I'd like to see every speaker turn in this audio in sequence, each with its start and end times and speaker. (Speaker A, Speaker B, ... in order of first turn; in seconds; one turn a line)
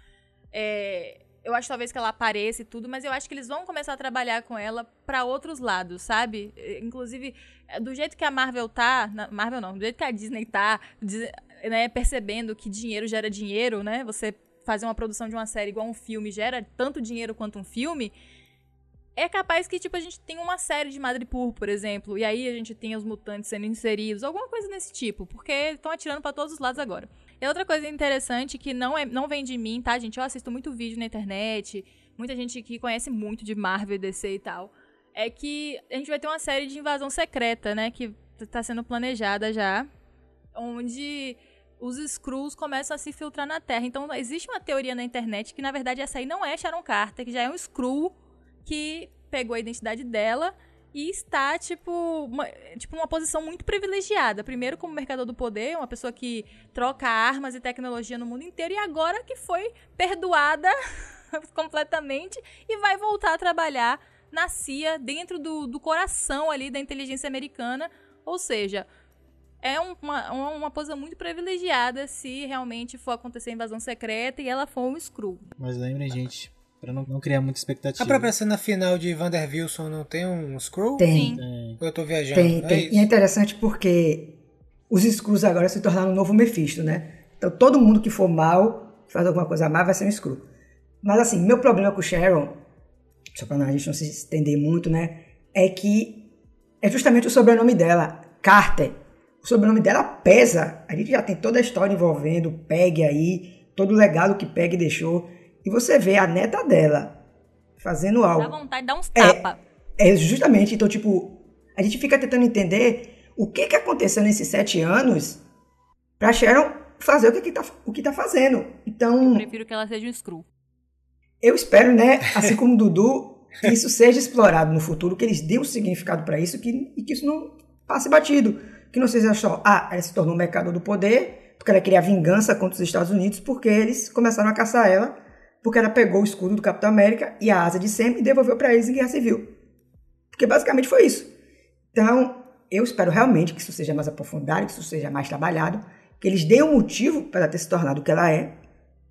Speaker A: 0.5-18.1
Speaker A: 19.1-39.9
Speaker A: 40.5-48.1
Speaker A: 48.6-60.8
Speaker A: 61.3-68.9
Speaker A: 69.6-75.5
Speaker B: 75.6-78.3
Speaker C: 78.0-81.1
Speaker D: 81.0-81.4
Speaker A: 81.1-81.4
Speaker B: 81.4-81.8
Speaker C: 81.8-83.1
Speaker D: 82.3-84.3
Speaker D: 84.9-90.4
Speaker D: 91.0-92.6
Speaker D: 93.3-96.3
Speaker D: 96.8-107.2
Speaker D: 107.8-108.5
Speaker A: 108.4-109.6
Speaker D: 109.2-109.5
Speaker D: 110.0-115.4
Speaker D: 116.2-119.4
Speaker A: 119.2-120.5
Speaker D: 121.4-139.5
Speaker D: 140.3-141.3
Speaker D: 141.9-148.6